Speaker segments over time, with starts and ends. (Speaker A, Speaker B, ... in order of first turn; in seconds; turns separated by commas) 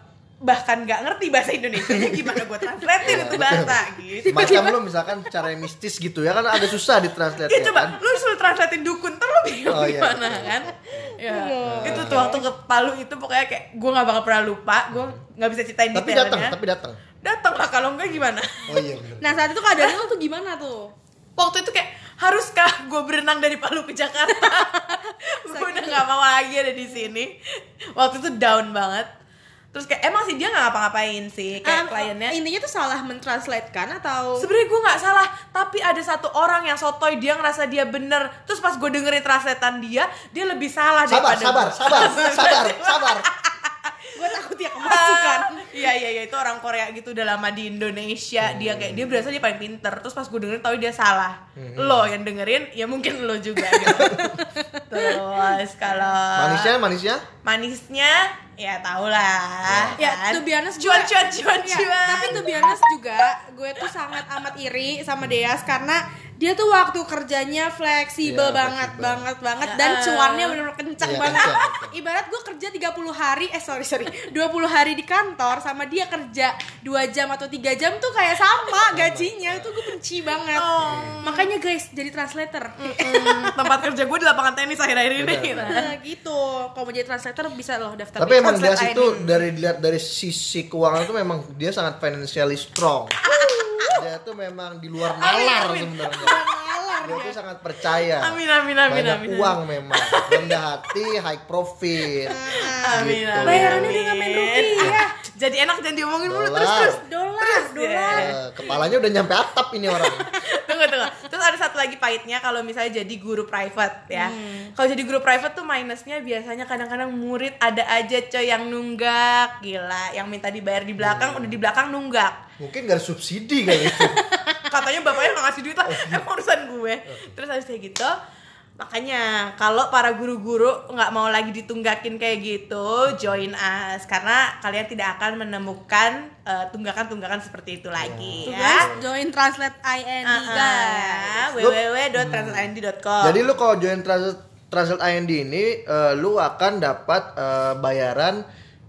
Speaker A: 0.4-4.7, Speaker B: 1.8-2.5, Speaker B: 3.0-8.0, Speaker C: 4.2-5.3, Speaker A: 7.4-16.5, Speaker B: 9.7-12.4, Speaker C: 11.2-12.4, Speaker B: 15.9-17.0, Speaker A: 17.2-18.9, Speaker B: 18.1-19.5, Speaker C: 19.2-20.9, Speaker A: 21.4-27.3, Speaker C: 24.3-26.0, Speaker A: 27.9-29.1, Speaker A: 29.7-32.4, Speaker C: 31.6-34.5, Speaker A: 34.4-43.9, Speaker B: 41.0-43.3, Speaker C: 44.1-45.7, Speaker A: 44.8-54.2, Speaker B: 48.4-49.2, Speaker B: 51.5-52.1, Speaker C: 53.7-55.2, Speaker B: 53.8-54.4, Speaker A: 54.9-56.7, Speaker B: 56.3-57.2, Speaker A: 57.4-62.8, Speaker B: 59.6-60.0, Speaker C: 60.0-83.6, Speaker B: 62.1-62.7, Speaker B: 68.2-69.2, Speaker A: 69.6-70.6, Speaker B: 71.0-72.0, Speaker B: 78.9-79.8, Speaker A: 80.5-81.5, Speaker B: 80.8-81.2, Speaker A: 82.8-85.9, Speaker B: 85.2-85.7, Speaker C: 85.6-89.4, Speaker B: 88.2-93.2, Speaker A: 93.2-94.0, Speaker B: 93.8-96.4, Speaker A: 95.1-96.3, Speaker C: 96.1-97.3, Speaker B: 97.0-104.0, Speaker A: 98.0-100.6, Speaker C: 102.2-105.1, Speaker A: 102.3-108.9, Speaker B: 106.2-107.0, Speaker C: 106.8-108.4, Speaker B: 108.1-110.3, Speaker A: 109.9-122.4, Speaker C: 114.1-114.7, Speaker B: 121.0-121.6, Speaker B: 122.6-124.2, Speaker C: 123.7-125.2, Speaker A: 124.7-128.1, Speaker B: 125.8-126.3, Speaker B: 127.0-127.4, Speaker A: 128.8-138.9, Speaker B: 133.1-133.4, Speaker B: 138.0-139.0, Speaker C: 138.4-141.5, Speaker A: 140.2-143.4, Speaker B: 141.6-148.4